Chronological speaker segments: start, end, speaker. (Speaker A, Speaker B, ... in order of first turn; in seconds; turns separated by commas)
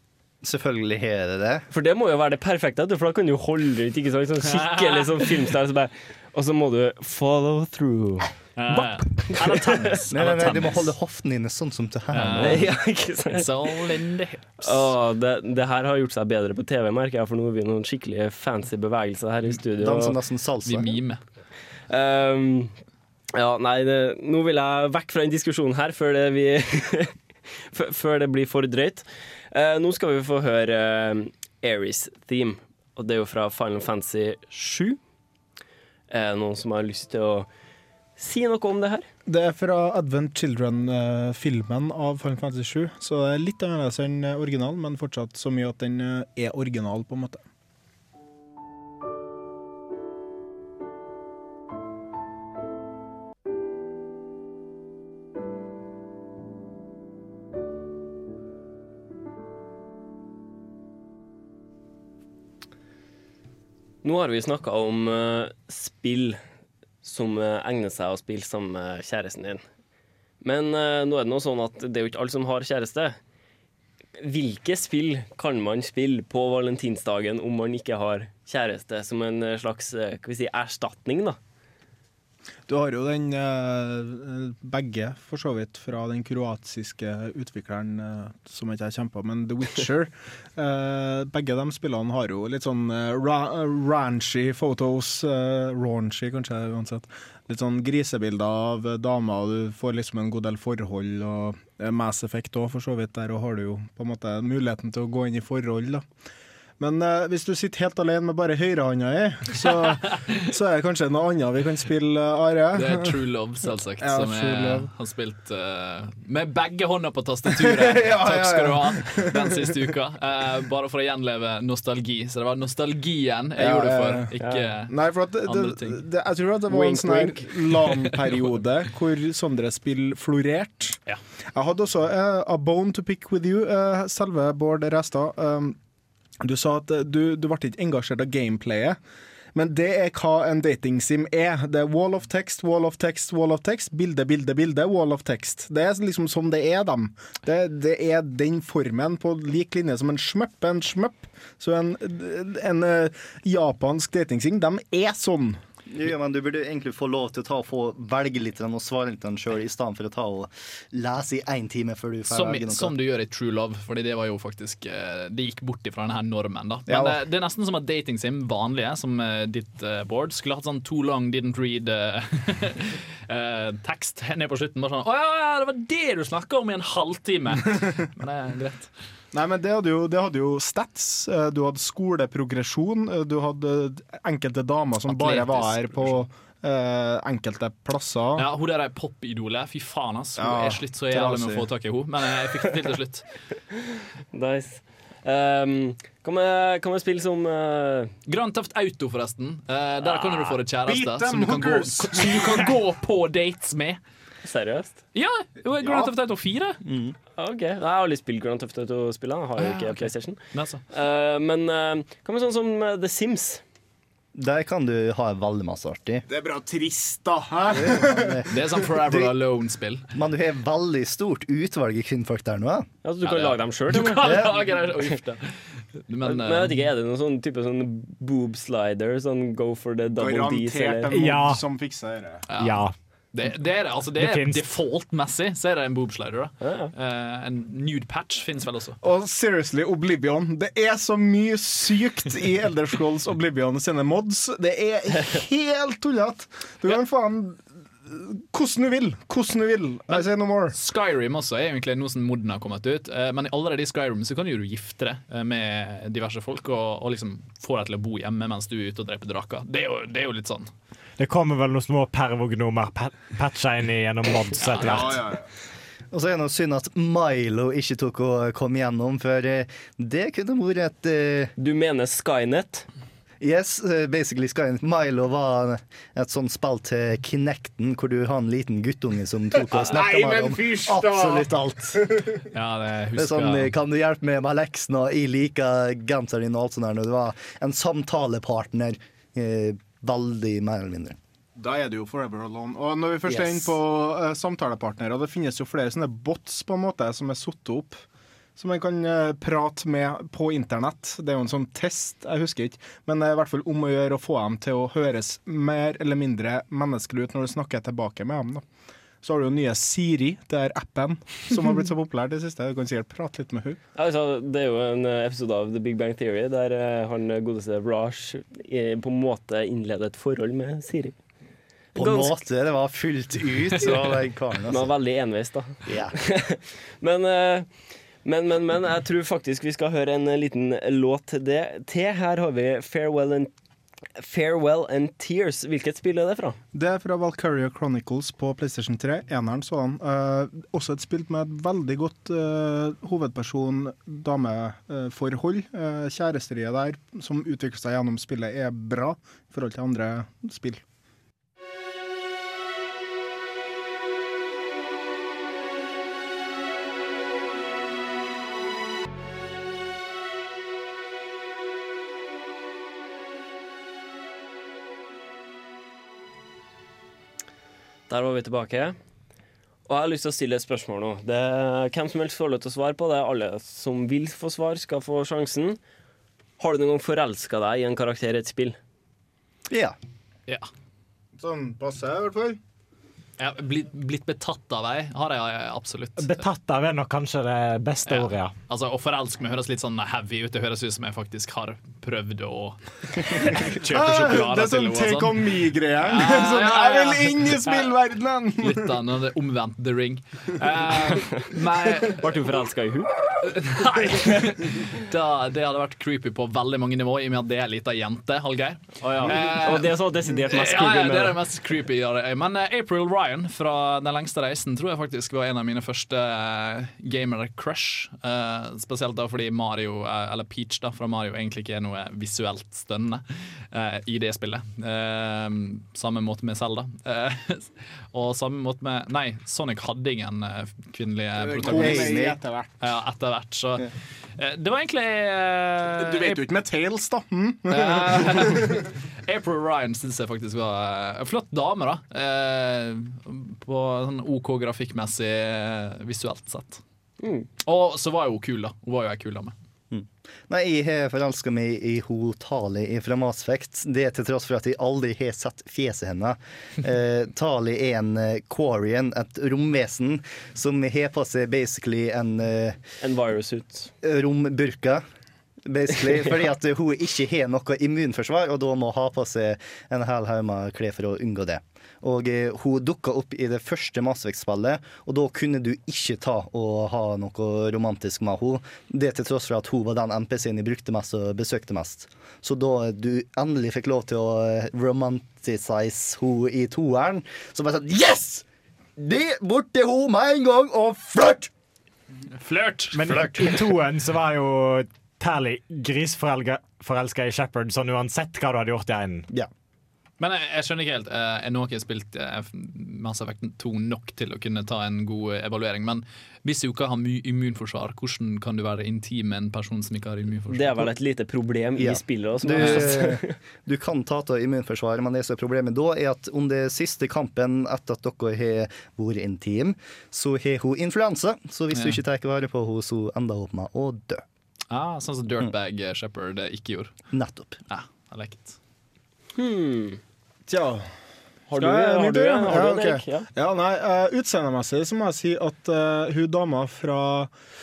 Speaker A: 0.4-1.6, Speaker B: 1.7-9.9, Speaker C: 4.4-5.5, Speaker C: 8.6-10.9, Speaker A: 10.1-12.7, Speaker C: 12.1-12.7, Speaker B: 12.4-13.9, Speaker C: 13.3-14.9, Speaker B: 14.6-20.1, Speaker A: 19.8-20.9, Speaker C: 20.6-21.2, Speaker B: 21.9-22.7, Speaker B: 23.3-27.1, Speaker B: 27.7-35.0, Speaker B: 36.1-37.5, Speaker B: 38.2-39.1, Speaker D: 39.2-47.4, Speaker B: 64.0-66.4, Speaker B: 67.0-69.6, Speaker B: 70.4-73.2, Speaker B: 74.2-81.4, Speaker D: 82.7-106.1, Speaker D: 106.8-113.1, Speaker C: 112.7-124.9, Speaker D: 114.0-114.9, Speaker D: 117.5-119.7, Speaker D: 123.6-124.3, Speaker B: 124.4-124.7, Speaker D: 124.9-131.0, Speaker C: 125.4-126.0, Speaker B: 126.7-127.5, Speaker D: 131.5-135.8, Speaker D: 136.4-139.0, Speaker D: 139.5-155.6, Speaker A: 155.9-162.9, Speaker C: 162.3-178.9, Speaker D: 166.9-167.2, Speaker D: 179.3-188.4, Speaker C: 185.1-186.2, Speaker C: 188.3-193.3, Speaker D: 190.4-191.7, Speaker B: 194.3-198.1, Speaker C: 198.3-204.0, Speaker D: 200.8-202.7, Speaker B: 204.4-205.0, Speaker C: 205.1-206.8, Speaker D: 205.8-206.1, Speaker A: 206.8-207.2, Speaker B: 207.4-210.4, Speaker C: 209.6-210.8, Speaker B: 210.9-213.6, Speaker A: 214.3-216.2, Speaker D: 216.3-218.4, Speaker A: 217.8-219.3, Speaker C: 218.5-220.0, Speaker A: 220.1-222.9, Speaker B: 223.0-225.0, Speaker C: 223.2-225.5, Speaker A: 224.2-224.7, Speaker C: 226.1-226.8, Speaker B: 226.2-231.1, Speaker D: 230.1-232.4, Speaker E: 231.1-231.6, Speaker C: 232.5-239.0, Speaker E: 232.5-232.9, Speaker E: 234.2-234.6, Speaker B: 236.6-236.9, Speaker D: 239.0-250.7, Speaker C: 250.1-260.7, Speaker E: 261.2-265.2, Speaker C: 264.6-265.1, Speaker D: 264.8-265.4, Speaker A: 266.1-271.5, Speaker B: 271.6-272.9, Speaker A: 273.4-282.0, Speaker D: 279.6-282.3, Speaker C: 282.5-283.7, Speaker A: 283.1-291.2, Speaker D: 291.6-298.0, Speaker A: 293.3-293.7, Speaker D: 298.6-308.6, Speaker D: 309.2-313.8, Speaker B: 313.9-321.1, Speaker B: 321.9-322.4, Speaker A: 321.9-324.9, Speaker B: 324.7-327.7, Speaker A: 325.8-326.1, Speaker B: 328.2-333.5, Speaker B: 334.2-336.6, Speaker D: 336.7-350.8, Speaker B: 368.1-368.9, Speaker B: 369.9-375.8, Speaker B: 376.6-378.8, Speaker A: 379.7-379.9, Speaker D: 381.4-382.6, Speaker C: 383.4-386.3, Speaker E: 386.2-388.5, Speaker C: 388.1-397.9, Speaker D: 393.9-398.9, Speaker C: 398.6-402.3, Speaker B: 402.2-403.1, Speaker C: 403.4-432.1, Speaker B: 409.0-411.4, Speaker D: 431.4-432.8, Speaker A: 431.6-432.4, Speaker C: 432.8-436.4, Speaker D: 436.0-438.8, Speaker C: 437.7-446.8, Speaker B: 447.2-447.5, Speaker C: 447.6-449.5, Speaker A: 449.9-462.8, Speaker B: 463.0-463.9, Speaker A: 464.0-465.0, Speaker A: 465.6-488.4, Speaker A: 489.0-491.5, Speaker C: 492.4-493.3, Speaker E: 492.9-499.3, Speaker C: 500.2-510.9, Speaker B: 510.5-513.4, Speaker A: 511.8-524.2, Speaker C: 512.6-513.0, Speaker C: 521.7-522.0, Speaker C: 524.7-526.9, Speaker A: 527.1-527.6, Speaker C: 527.7-528.6, Speaker B: 529.4-530.0, Speaker D: 530.5-530.9, Speaker B: 531.5-533.3, Speaker D: 531.5-537.3